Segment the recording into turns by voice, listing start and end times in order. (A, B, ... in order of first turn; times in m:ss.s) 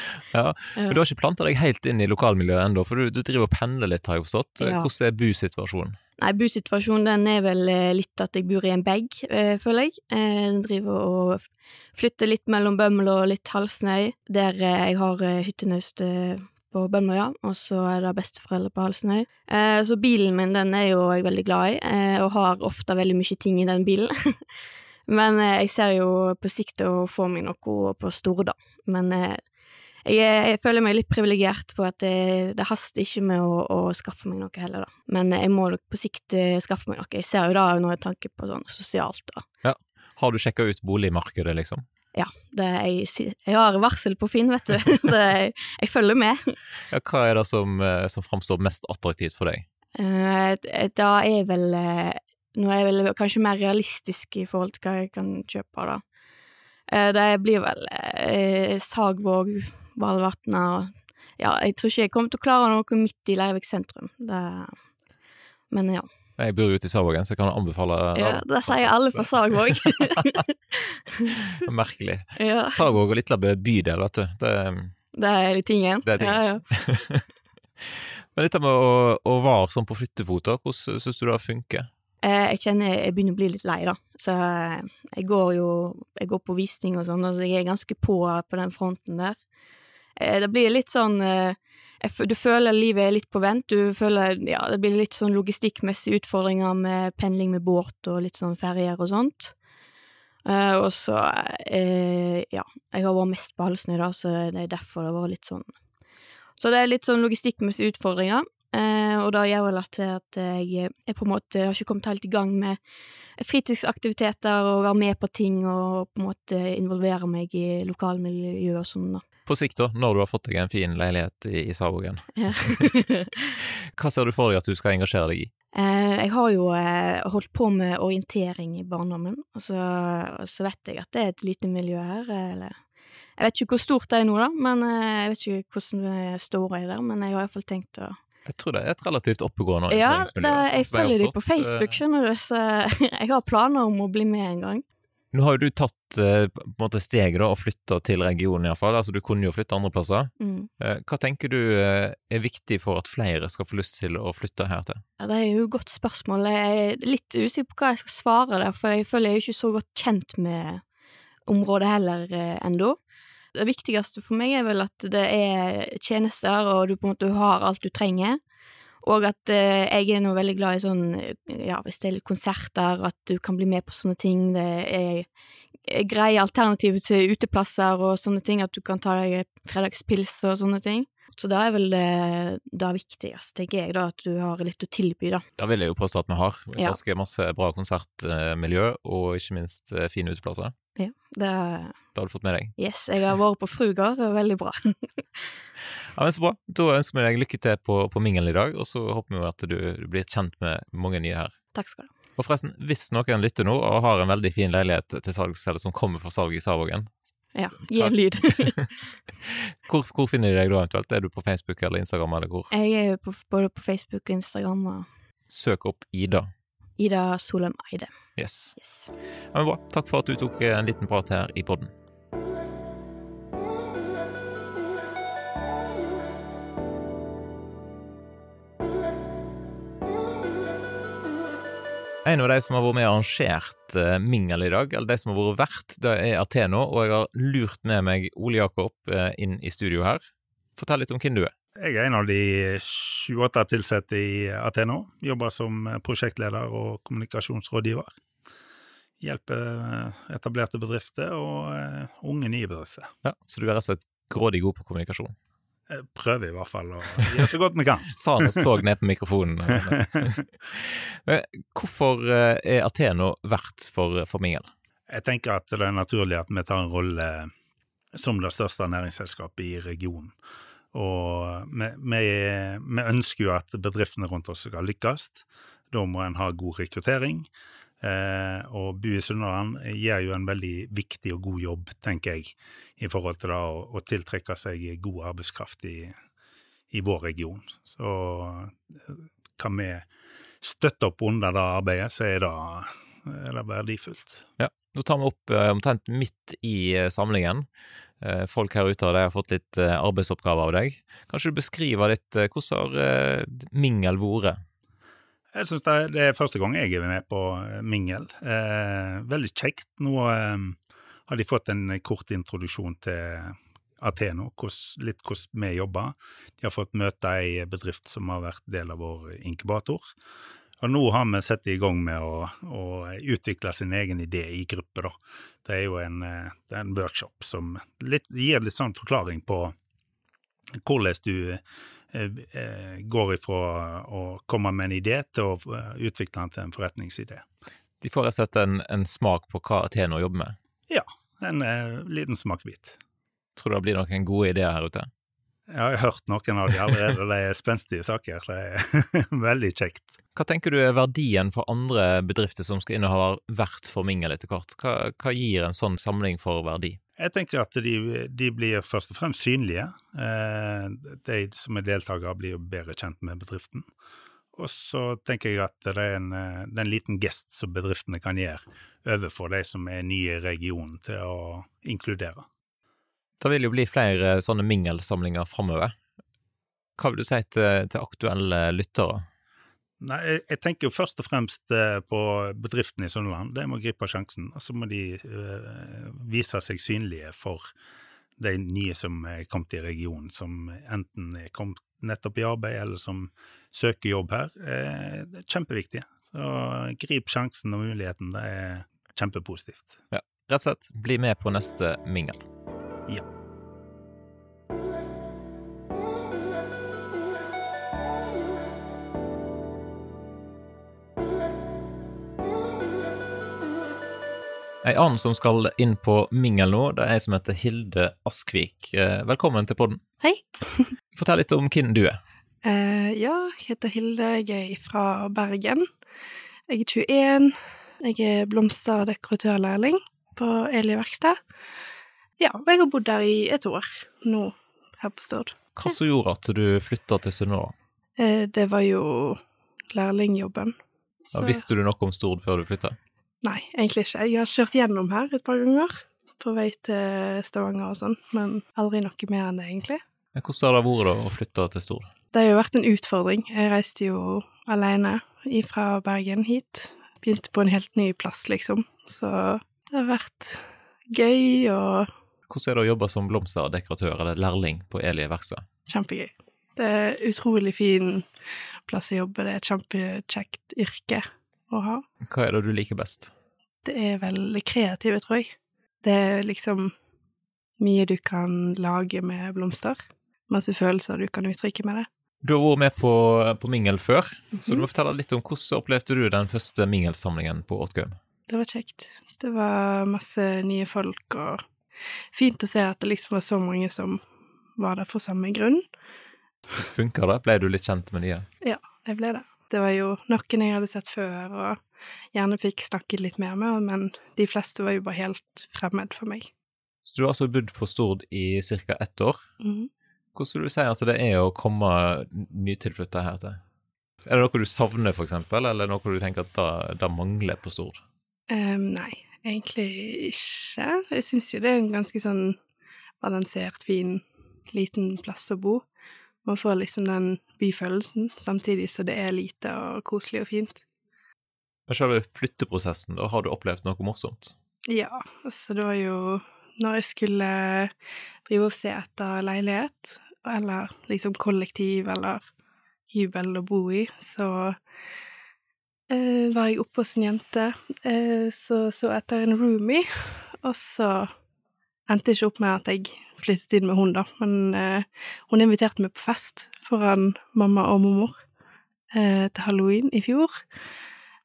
0:00.3-0:06.0 A
0:04.6-0:04.9 B
0:06.2-0:24.4 B
0:25.1-0:29.4 B
0:30.0-0:39.4 B
0:39.6-0:41.8 A
0:42.1-0:46.6 B
0:46.9-0:49.6 A
0:50.0-0:56.0 B
0:56.9-1:04.8 B
1:05.7-1:06.1 B
1:06.4-1:09.9 A
1:08.2-1:10.8 B
1:11.6-1:15.0 A
1:12.4-1:12.9 B
1:15.1-1:16.7 B
1:16.0-1:17.2 A
1:18.4-1:21.9 A
1:22.2-1:29.4 B
1:30.2-1:39.6 B
1:40.4-1:45.7 B
1:46.6-1:52.8 B
1:53.4-1:59.2 B
1:59.5-2:02.9 A
2:02.4-2:03.4 B
2:04.0-2:05.5 A
2:05.7-2:12.8 B
2:13.4-2:18.2 B
2:18.5-2:22.0 A
2:19.9-2:24.8 B
2:25.3-2:35.0 A
2:30.4-2:30.7 B
2:35.2-2:40.8 B
2:41.5-2:43.0 B
2:43.6-2:48.4 B
2:49.0-2:55.3 B
2:55.9-3:05.4 B
3:05.6-3:10.7 A
3:11.0-3:12.0 B
3:12.2-3:12.7 A
3:12.8-3:15.5 B
3:16.2-3:21.6 A
3:21.7-3:22.1 B
3:22.4-3:27.1 A
3:27.6-3:28.9 B
3:27.9-3:28.8 A
3:29.9-3:32.7 A
3:32.7-3:35.1 B
3:35.5-3:36.5 A
3:37.0-3:38.1 B
3:38.4-3:38.8 A
3:38.8-3:39.1 B
3:39.5-3:41.9 A
3:52.2-4:00.2 A
4:00.8-4:01.5 A
4:01.8-4:08.1 C
4:09.2-4:13.1 C
4:13.2-4:15.3 A
4:15.9-4:18.7 C
4:18.1-4:24.7 A
4:19.7-4:20.4 C
4:25.1-4:27.5 C
4:28.2-4:30.4 C
4:30.9-4:37.5 C
4:38.0-4:46.2 C
4:46.9-4:50.1 C
4:50.6-4:54.4 C
4:54.6-4:57.7 A
4:58.2-5:04.6 A
5:05.5-5:20.1 C
5:20.8-5:29.7 C
5:30.8-5:37.4 C
5:38.0-5:40.6 A
5:40.9-5:43.0 C
5:43.6-5:45.1 A
5:45.7-5:50.1 C
5:50.4-5:57.0 A
5:57.2-6:03.9 C
6:04.5-6:12.5 C
6:13.4-6:16.0 A
6:17.0-6:19.2 A
6:20.0-6:27.7 C
6:28.4-6:40.0 C
6:40.1-6:42.4 A
6:54.8-7:00.0 A
7:00.2-7:00.9 D
7:01.1-7:02.2 A
7:02.6-7:05.9 D
7:06.7-7:11.4 D
7:12.4-7:15.6 D
7:15.8-7:17.7 A
7:18.2-7:19.4 D
7:19.9-7:20.8 D
7:21.3-7:21.7 D
7:21.3-7:23.0 A
7:23.4-7:30.0 D
7:30.4-7:32.1 A
7:32.3-7:42.1 D
7:42.5-7:45.6 A
7:45.9-7:48.3 D
7:48.9-7:52.0 D
7:52.2-7:53.3 A
7:53.8-7:56.9 D
7:57.8-8:02.1 D
8:02.4-8:08.2 A
8:04.6-8:04.9 D
8:08.5-8:11.6 D
8:12.3-8:14.2 D
8:14.8-8:15.8 D
8:16.8-8:18.5 A
8:18.6-8:21.8 D
8:22.3-8:26.5 D
8:27.1-8:29.5 A
8:29.6-8:29.9 D
8:30.4-8:33.6 A
8:34.2-8:38.0 A
8:38.5-8:42.6 D
8:43.2-8:45.8 D
8:46.4-8:50.8 D
8:51.9-8:54.6 A
8:54.9-8:57.9 D
8:58.4-9:02.4 D
9:03.1-9:04.8 D
9:06.1-9:11.3 D
9:12.1-9:18.4 D
9:19.1-9:20.6 D